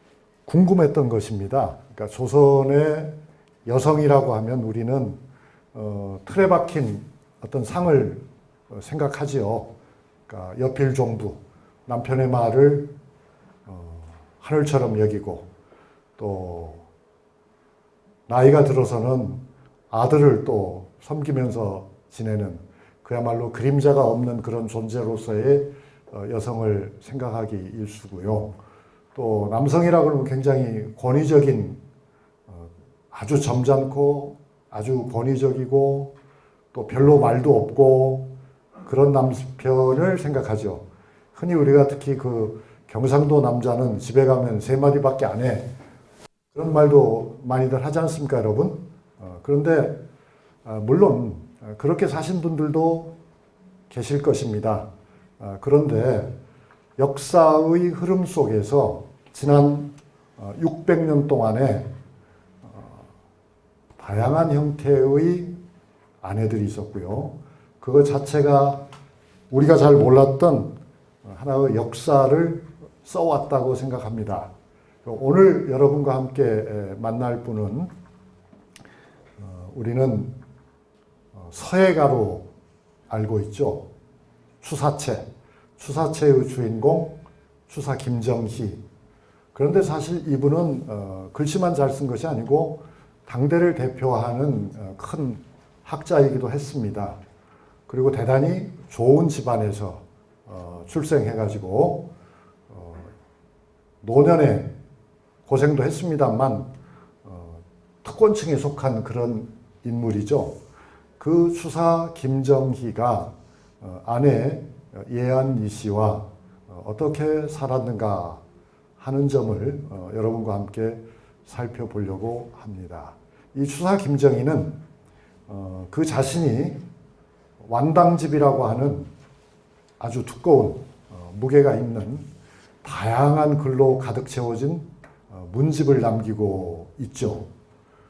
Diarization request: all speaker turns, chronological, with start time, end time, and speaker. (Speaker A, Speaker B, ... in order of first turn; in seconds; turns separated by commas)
Speaker A: 0.5-3.1, Speaker A: 3.6-5.2, Speaker A: 5.7-9.7, Speaker A: 10.3-12.9, Speaker A: 13.7-15.5, Speaker A: 16.2-16.9, Speaker A: 18.3-28.6, Speaker A: 29.1-31.8, Speaker A: 32.5-36.1, Speaker A: 36.7-45.7, Speaker A: 46.5-50.0, Speaker A: 50.6-53.1, Speaker A: 53.9-54.9, Speaker A: 55.4-56.3, Speaker A: 57.0-61.9, Speaker A: 62.7-63.1, Speaker A: 64.0-65.6, Speaker A: 66.2-68.8, Speaker A: 69.5-70.7, Speaker A: 71.2-74.5, Speaker A: 75.0-77.9, Speaker A: 79.4-80.3, Speaker A: 81.3-82.5, Speaker A: 83.1-83.9, Speaker A: 84.6-88.8, Speaker A: 89.5-97.2, Speaker A: 97.9-102.1, Speaker A: 102.7-103.1, Speaker A: 104.0-104.7, Speaker A: 105.5-106.7, Speaker A: 107.2-110.6, Speaker A: 111.2-118.4, Speaker A: 119.0-124.8, Speaker A: 125.5-126.8, Speaker A: 127.6-129.1, Speaker A: 130.0-132.3, Speaker A: 132.8-137.5